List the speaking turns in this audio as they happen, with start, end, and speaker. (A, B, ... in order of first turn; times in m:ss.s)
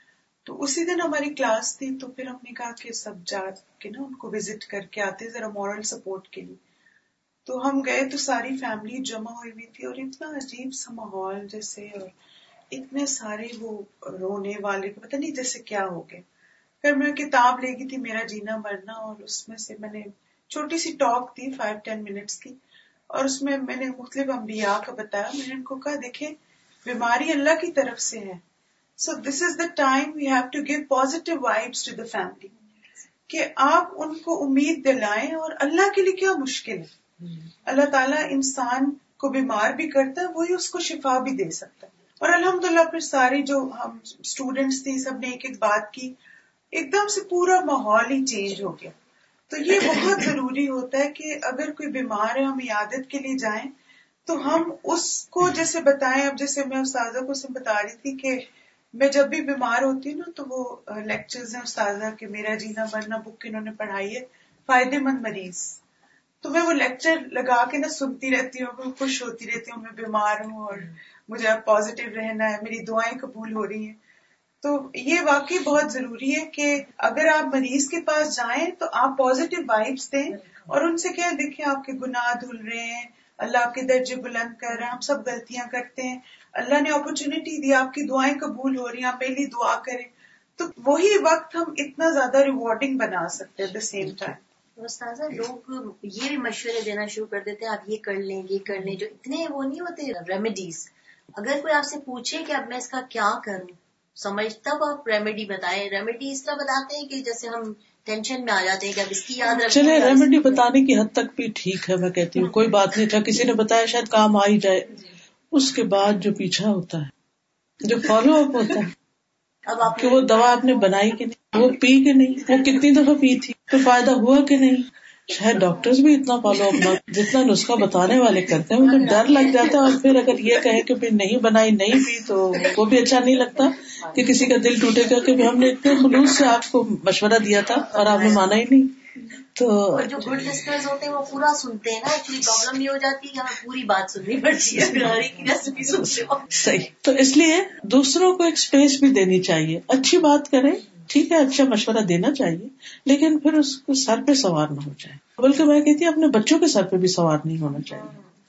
0:00.4-0:06.6 A
0:07.5-0:12.1 A
0:12.7-0:16.2 A
0:16.8-0:22.6 A
0:23.1-0:28.4 A
0:29.0-0:32.5 A
0:33.3-0:36.9 A
0:37.6-0:46.2 A
0:46.7-0:49.0 A
0:49.5-0:53.7 A
0:54.3-1:05.8 A
1:06.4-1:14.0 A
1:14.6-1:34.4 A
1:34.8-1:50.6 B
1:49.7-1:55.0 C
1:55.5-1:57.1 C
1:57.8-1:58.9 C
1:59.7-2:00.4 B
1:59.9-2:19.0 C
2:18.0-2:18.3 B
2:19.6-2:20.5 C
2:19.9-2:26.6 B
2:26.5-2:38.2 C